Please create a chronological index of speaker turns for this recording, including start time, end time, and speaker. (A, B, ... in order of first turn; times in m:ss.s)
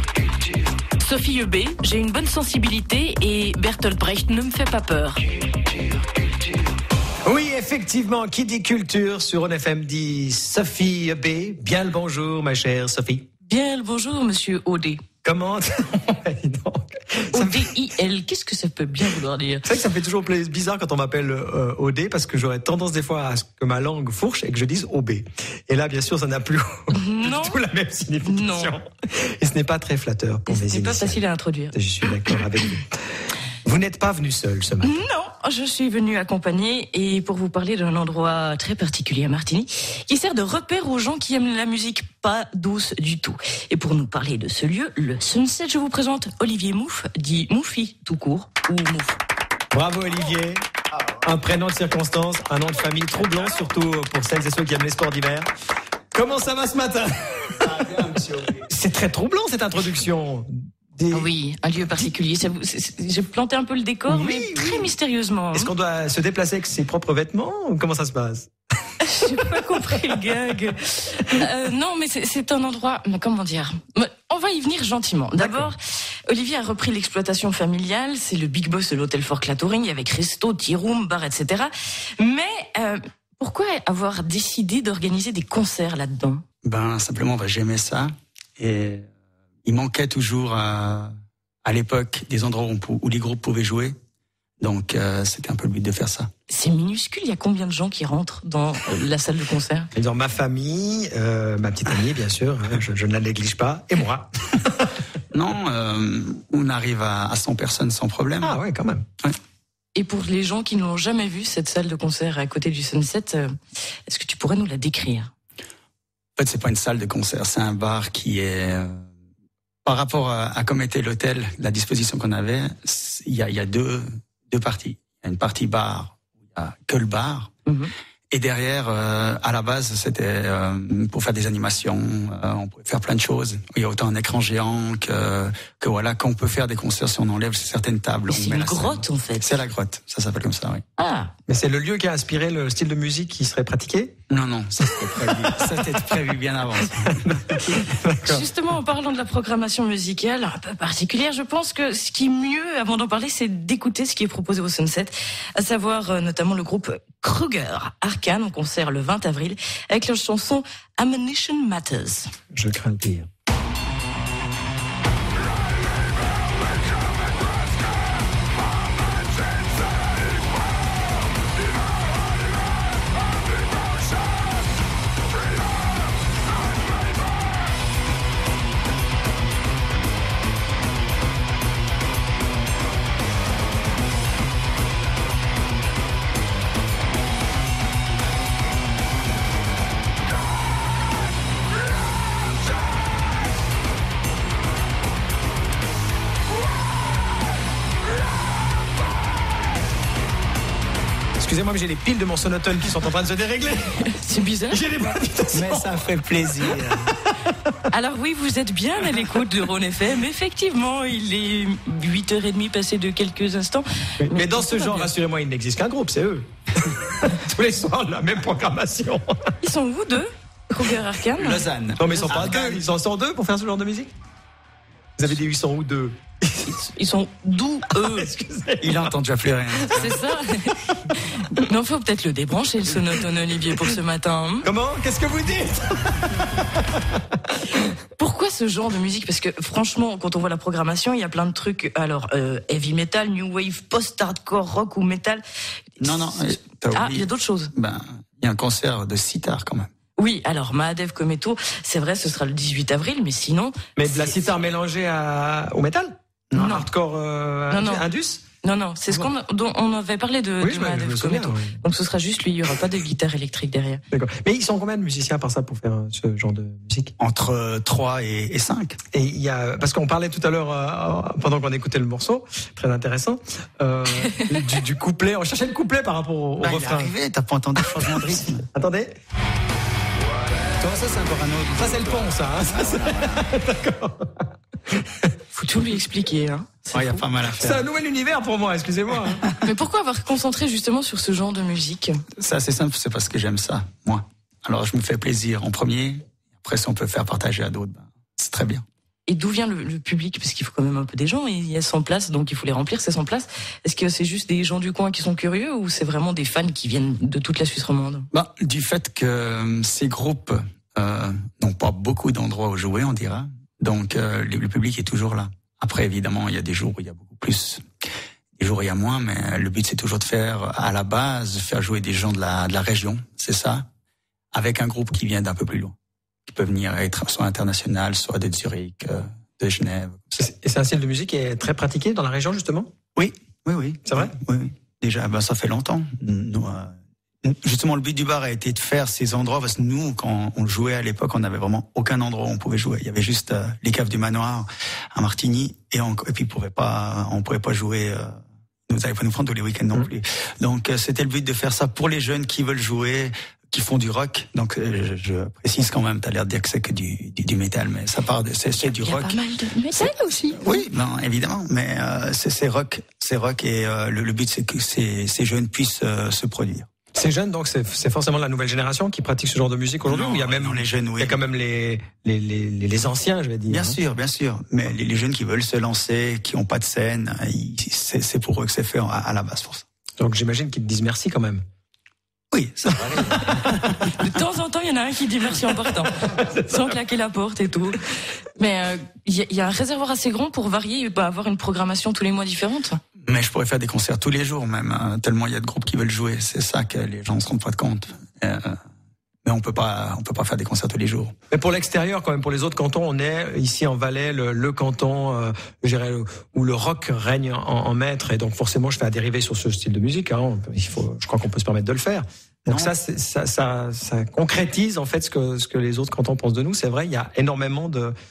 0:01.0-0:05.2 A
0:07.3-0:13.3 B
0:13.4-0:15.0 A
0:15.2-0:17.7 B
0:17.3-0:19.7 A
0:19.6-0:33.0 B
0:26.9-0:27.6 A
0:28.2-0:28.7 A
0:30.5-0:31.7 A
0:33.6-0:35.0 B
0:34.8-0:49.2 A
0:49.7-0:50.6 B
0:51.2-0:55.5 B
0:56.1-1:01.3 B
0:57.7-0:58.6 C
1:01.1-1:05.7 A
1:04.1-1:04.9 B
1:05.5-1:08.5 B
1:09.0-1:26.4 A
1:15.4-1:15.7 B
1:26.6-1:29.1 C
1:29.6-1:31.1 C
1:31.6-1:34.0 C
1:34.6-1:36.3 C
1:36.5-1:39.9 A
1:40.0-1:44.9 B
1:45.3-1:48.6 C
1:48.4-1:49.0 B
1:50.0-1:53.5 A
1:54.1-1:55.3 A
1:56.4-1:59.1 C
1:59.8-2:07.5 C
2:07.7-2:07.9 A
2:08.3-2:20.8 C
2:18.3-2:19.6 A
2:21.0-2:21.3 A
2:21.5-2:24.2 B
2:24.3-2:27.8 C
2:25.0-2:26.0 B
2:27.1-2:28.5 B
2:28.2-2:42.3 A
2:42.5-2:43.3 B
3:21.4-3:24.1 B
3:24.0-3:25.0 A
3:24.7-3:25.9 B
3:25.5-3:27.1 C
3:26.6-3:27.6 B
3:27.9-3:35.1 A
3:34.2-3:39.5 B
3:39.6-3:41.6 A
3:41.4-3:42.8 C
3:42.0-3:44.1 B
3:45.2-3:46.8 B
3:46.6-3:48.3 A
3:47.9-3:49.1 B
3:48.8-3:50.1 C
3:49.8-3:54.7 A
3:54.6-3:57.2 B
3:58.2-4:05.4 A
4:06.0-4:07.7 A
4:06.0-4:09.9 C
4:10.2-4:14.5 A
4:14.0-4:18.4 B
4:16.6-4:16.9 A
4:17.7-4:18.1 A
4:18.6-4:24.0 A
4:20.6-4:21.8 B
4:24.1-4:27.2 B
4:27.2-4:29.0 C
4:29.1-4:37.2 B
4:36.6-4:38.7 C
4:37.8-4:39.1 B
4:40.7-4:43.5 C
4:41.8-4:45.3 B
4:45.5-4:47.2 A
4:46.9-4:47.8 C
4:47.6-4:49.4 B
4:49.3-4:49.6 C
4:49.6-4:52.2 A
4:52.4-4:58.8 C
4:59.3-5:08.3 A
5:08.3-5:17.9 C
5:18.6-5:23.8 C
5:24.5-5:26.0 C
5:26.5-5:30.4 C
5:30.4-5:32.9 B
5:33.2-5:48.4 C
5:34.1-5:34.3 B
5:48.9-5:59.4 C
5:58.8-6:00.8 A
6:00.0-6:06.9 C
6:07.2-6:14.0 B
6:10.0-6:11.4 C
6:13.7-6:19.8 C
6:20.2-6:21.6 B
6:22.5-6:24.2 C
6:23.0-6:23.7 B
6:24.0-6:28.0 A
6:26.2-6:27.0 B
6:28.6-6:33.0 A
6:33.3-6:38.8 C
6:39.4-6:41.3 C
6:41.5-6:58.1 B
6:52.7-6:52.9 C